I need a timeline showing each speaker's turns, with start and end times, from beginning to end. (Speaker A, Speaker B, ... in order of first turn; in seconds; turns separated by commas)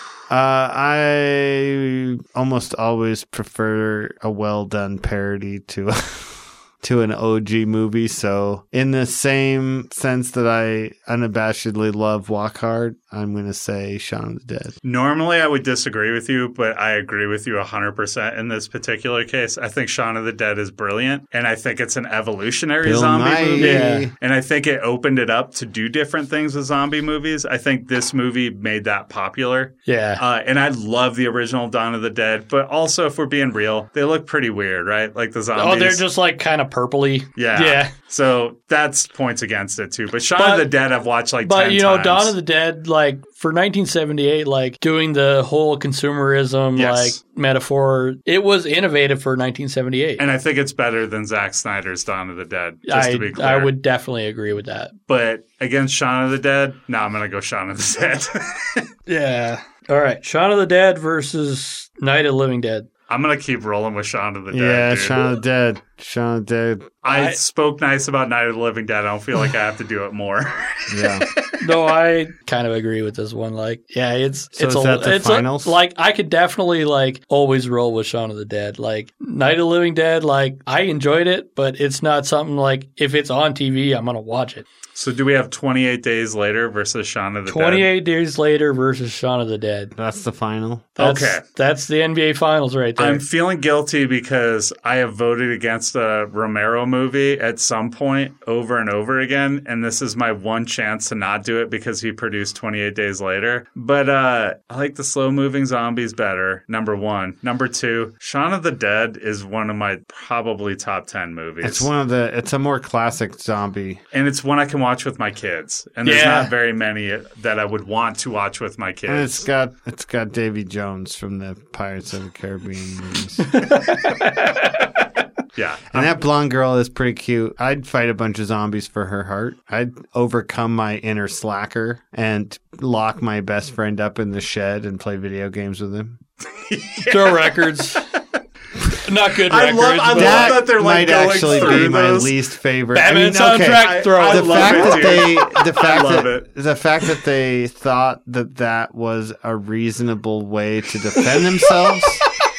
Speaker A: 0.3-14.7, Speaker B: 14.8-36.0, Speaker A: 22.8-24.1, Speaker C: 23.6-24.1, Speaker C: 29.9-30.2, Speaker C: 35.5-37.9, Speaker B: 37.4-42.3, Speaker C: 40.4-40.7, Speaker C: 41.4-50.2, Speaker B: 46.7-47.1, Speaker B: 50.2-53.7, Speaker C: 52.9-54.9, Speaker B: 55.1-58.9, Speaker C: 59.1-62.9, Speaker B: 63.1-65.3, Speaker A: 64.5-66.9, Speaker B: 67.0-71.4, Speaker C: 67.1-67.3, Speaker A: 70.9-71.2, Speaker C: 71.6-84.7, Speaker A: 74.5-75.8, Speaker B: 84.9-87.9, Speaker C: 87.5-89.9, Speaker A: 89.9-90.9, Speaker B: 91.0-91.4, Speaker C: 91.0-93.2, Speaker B: 93.0-111.9, Speaker A: 111.6-114.0, Speaker B: 114.1-119.4, Speaker C: 116.0-116.5, Speaker A: 119.1-123.5, Speaker C: 123.5-124.2, Speaker B: 125.5-126.1, Speaker A: 125.9-136.2, Speaker B: 136.5-137.7, Speaker C: 137.0-138.0, Speaker C: 139.0-140.7, Speaker B: 139.4-142.3, Speaker A: 140.1-152.2, Speaker C: 141.4-141.9, Speaker C: 142.9-145.3, Speaker B: 143.7-146.4